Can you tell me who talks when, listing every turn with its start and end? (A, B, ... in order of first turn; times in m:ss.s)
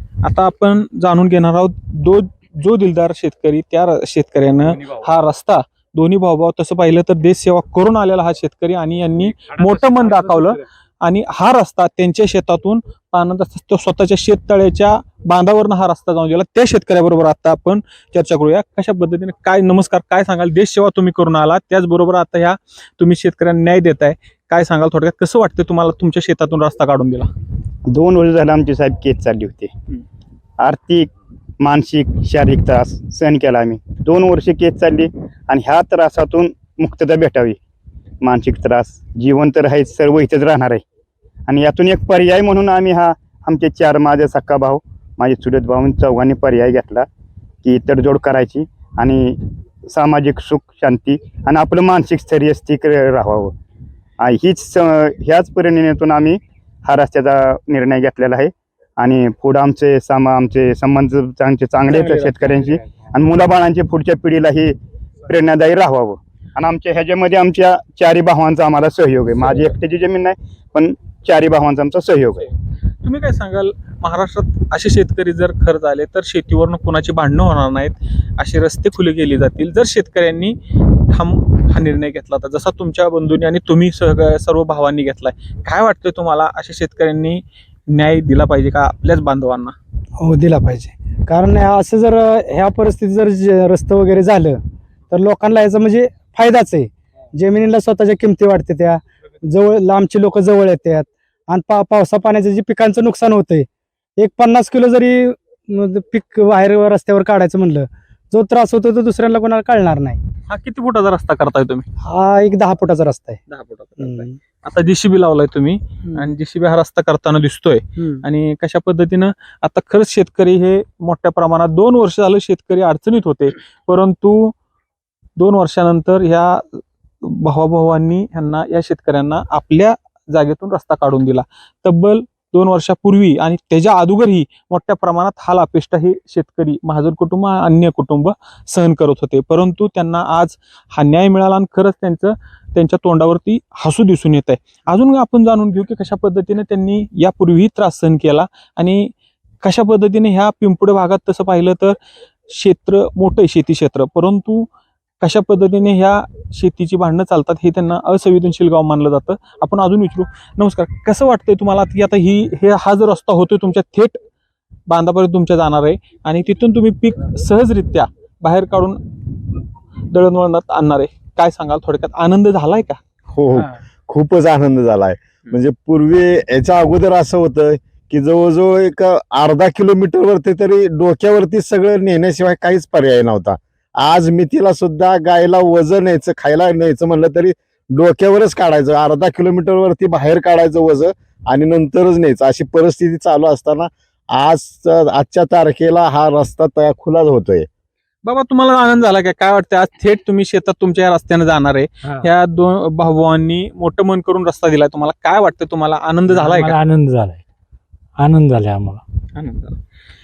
0:00.2-0:27.3 A
0:27.9-0:29.7 B
0:30.6-0:31.1 B
0:31.6-0:37.6 B
0:38.2-0:40.8 B
0:41.5-0:47.0 B
0:47.6-0:53.5 B
0:54.2-1:04.8 B
1:01.9-1:02.3 A
1:05.3-1:12.5 B
1:13.0-1:29.8 A
1:30.2-1:34.6 C
1:35.1-1:50.2 C
1:50.5-1:51.8 A
1:52.0-1:53.4 C
1:53.5-2:04.5 A
1:54.0-1:54.4 C
1:56.0-1:56.3 C
2:05.4-2:32.0 A
2:32.5-2:34.7 A
2:35.2-2:44.2 A
2:44.9-2:53.0 A
2:53.3-3:17.7 D
3:18.2-3:26.8 A
3:26.3-3:27.4 E
3:28.2-3:29.0 E
3:29.3-3:29.8 A